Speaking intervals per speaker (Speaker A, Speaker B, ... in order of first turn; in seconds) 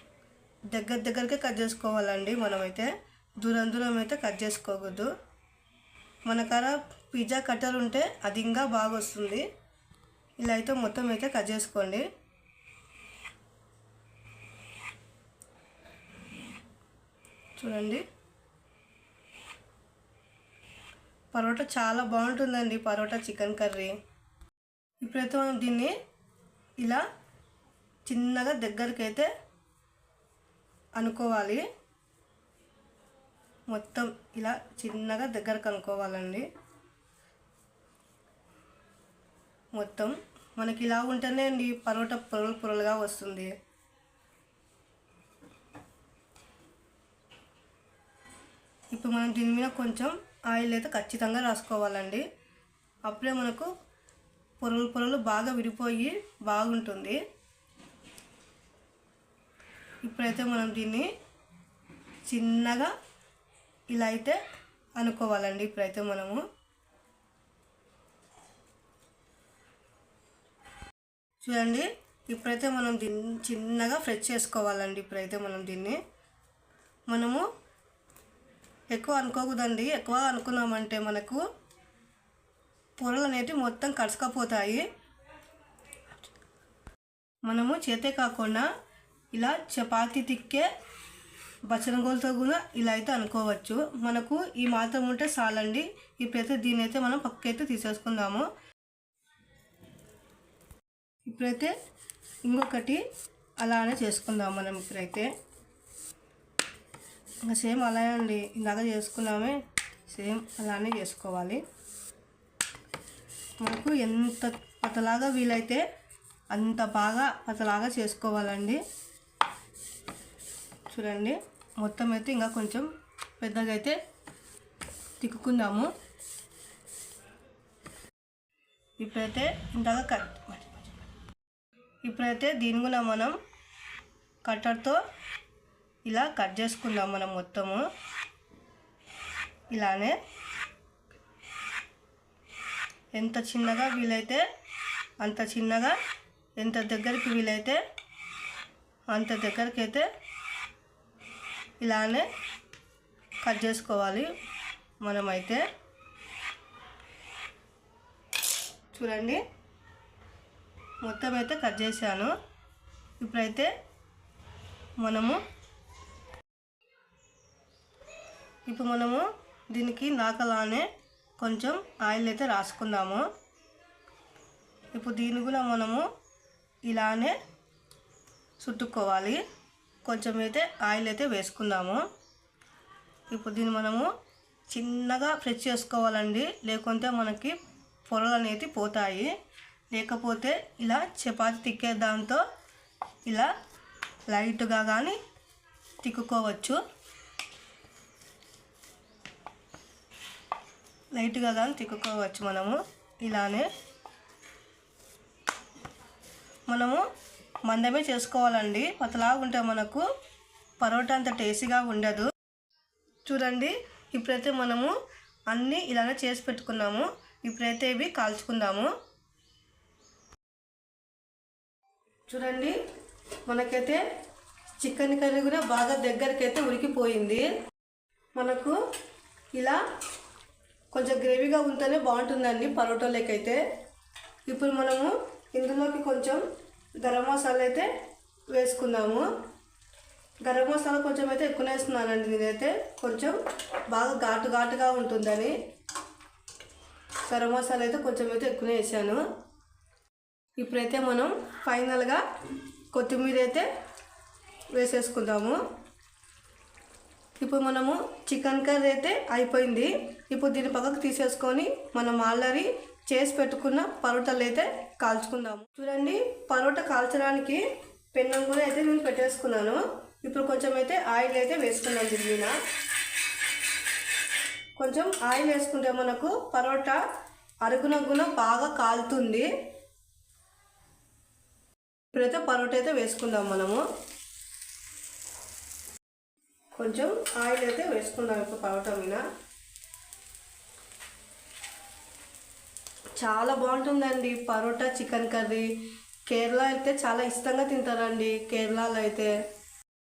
Speaker A: 0.7-2.9, 3.4-5.1, 6.3-9.4, 10.4-12.1, 17.6-18.0, 21.3-23.9, 25.0-25.9, 28.1-29.3, 31.0-31.6, 33.7-36.5, 39.7-43.5, 48.9-52.2, 53.1-53.7, 54.6-57.2, 60.0-61.1, 62.3-62.9, 63.9-64.4, 65.0-66.4, 71.4-76.0, 77.1-77.4, 78.9-81.4, 83.0-84.8, 87.5-88.7, 89.3-90.7, 91.7-98.5, 101.3-101.7, 102.5-103.0, 103.6-105.3, 107.5-111.6, 113.6-115.8, 116.5-118.8, 120.9-122.9, 123.4-124.0, 125.2-125.9, 129.0-130.9, 132.0-133.4, 134.4-135.0, 136.1-137.8, 139.7-140.2, 143.2-144.4, 145.2-146.0, 146.6-147.8, 149.1-150.1, 151.8-152.2, 153.4-154.3, 155.0-155.7, 158.9-159.4, 161.0-162.3, 163.2-163.7, 165.0-165.4, 168.7-170.9, 171.4-173.2, 174.9-176.1, 176.9-177.3, 178.6-179.4, 180.1-182.0, 183.3-184.1, 184.7-187.5, 188.1-189.3, 189.9-192.4, 194.3-195.2, 196.0-196.8, 201.2-203.7, 206.7-207.0, 207.7-210.1, 210.8-212.3, 213.3-214.9, 215.5-218.9, 222.3-222.8, 223.5-224.0, 224.8-227.4, 228.4-228.8, 230.9-233.6, 234.5-236.4, 237.0-237.9, 238.5-239.3, 240.4-243.4, 243.9-245.6, 247.3-249.2, 250.6-252.2, 252.9-253.7, 254.8-255.6, 257.4-267.6, 268.1-272.5, 274.8-277.0, 277.6-279.5, 282.1-283.8, 286.7-289.2, 293.2-295.7, 296.3-299.3